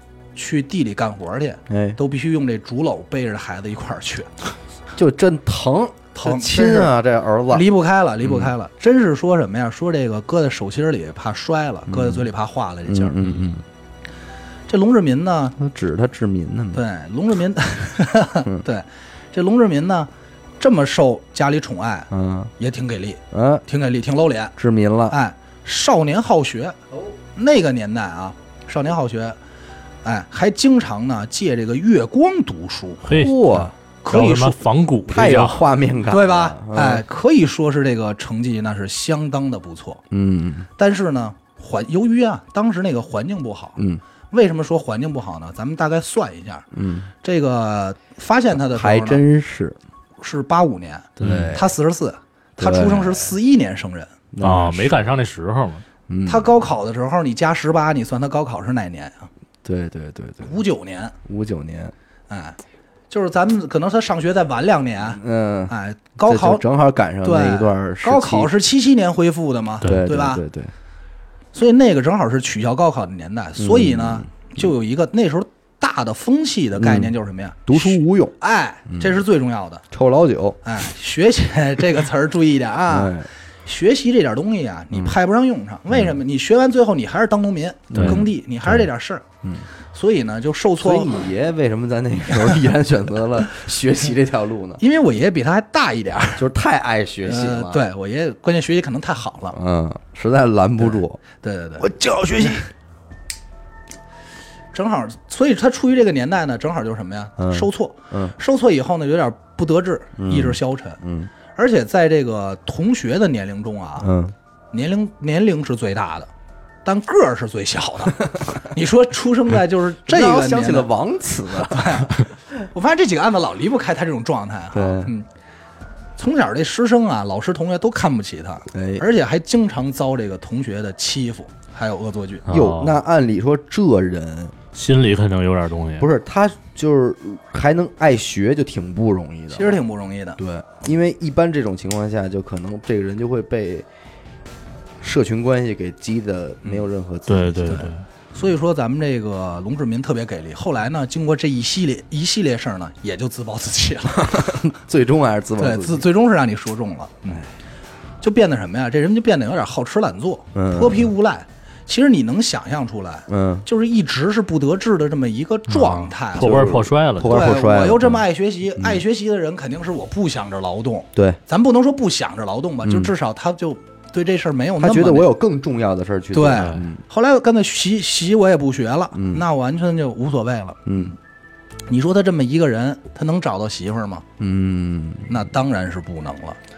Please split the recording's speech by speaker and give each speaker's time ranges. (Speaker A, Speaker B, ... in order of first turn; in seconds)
Speaker A: 0.3-4.3, 6.2-6.9, 7.5-13.2, 14.7-15.6, 16.7-24.5, 25.1-26.8, 27.3-29.4, 30.0-33.1, 34.0-34.6, 36.1-40.0, 40.8-43.8, 44.3-46.6, 47.2-49.2, 50.2-54.1, 56.2-59.3, 60.4-61.1, 62.3-62.6, 63.1-66.6, 67.2-70.4, 71.5-79.8, 80.6-83.1, 83.6-89.2, 89.9-91.1, 92.3-92.6, 94.8-96.5, 97.2-99.6, 100.8-102.6, 104.7-111.0, 111.5-114.1, 114.7-116.3, 116.8-120.9, 121.5-125.3, 126.2-132.4, 139.5-140.4, 147.7-154.6, 155.6-157.4, 158.2-166.7, 167.2-175.3, 176.3-181.2, 181.9-184.2, 185.3-186.6
Speaker B: 1.7-2.0, 5.0-7.7, 8.2-8.5, 11.9-12.3, 12.8-13.6, 15.6-16.8, 22.1-22.5, 23.3-23.6, 24.6-25.1, 33.1-33.7, 35.1-37.0, 40.1-40.7, 46.7-47.1, 48.6-49.8, 51.2-51.7, 52.6-53.3, 54.3-55.0, 56.1-56.5, 59.6-60.5, 61.2-61.9, 65.1-68.5, 69.8-70.7, 73.6-74.3, 76.8-77.1, 77.7-78.3, 78.9-79.2, 79.9-80.6, 82.9-83.3, 87.9-88.9, 90.8-94.8, 96.3-97.8, 99.5-101.2, 101.8-102.7, 107.4-108.3, 110.2-111.3, 114.0-114.3, 120.0-122.1, 124.7-125.1, 128.7-129.0, 132.5-134.6, 136.0-139.8, 140.4-143.8, 145.0-147.9, 154.2-156.0, 160.5-161.1, 163.3-163.7, 166.4-168.2, 171.1-171.4, 172.8-173.1, 174.8-177.0, 179.1-179.4, 180.8-181.1, 184.4-185.4
Speaker C: 13.2-13.5, 33.0-35.6, 51.2-51.5, 54.4-55.8, 87.9-88.2, 132.4-133.0, 134.7-136.1, 147.3-148.1, 165.7-167.4, 176.5-176.8